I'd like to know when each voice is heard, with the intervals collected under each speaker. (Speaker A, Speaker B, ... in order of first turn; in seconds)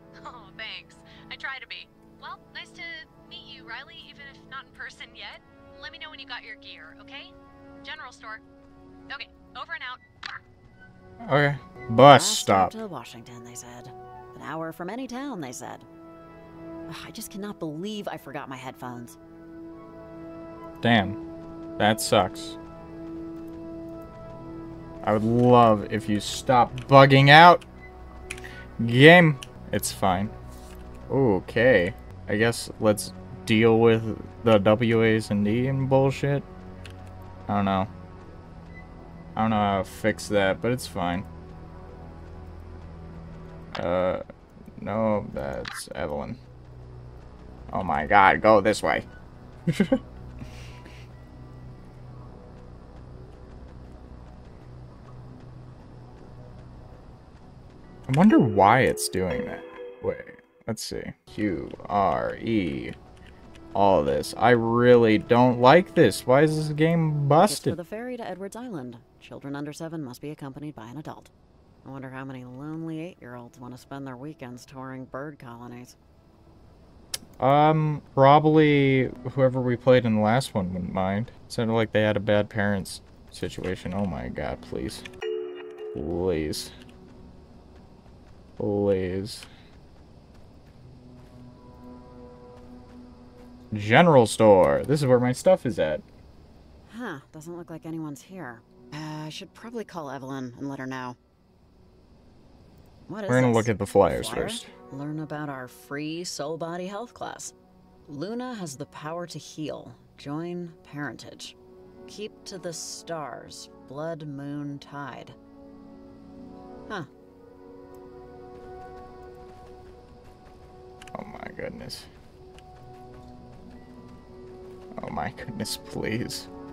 Speaker A: 0.2-7.3, 7.8-8.4, 9.1-10.0
Speaker B: 11.2-12.7, 20.8-21.2, 21.8-22.6, 25.0-27.6, 28.8-30.3, 31.1-36.5, 37.5-37.9, 39.4-41.2, 43.7-44.2, 44.8-46.4, 47.7-49.0, 49.7-50.0, 58.1-63.0, 63.7-67.8, 77.4-85.0, 85.9-86.7, 88.6-89.5, 93.7-96.0, 103.3-104.7, 121.1-122.1, 125.0-126.5
Speaker C: 12.1-15.9, 16.9-19.2, 67.4-71.3, 71.8-76.0, 96.9-101.2, 103.1-107.5, 108.1-111.5, 112.1-115.3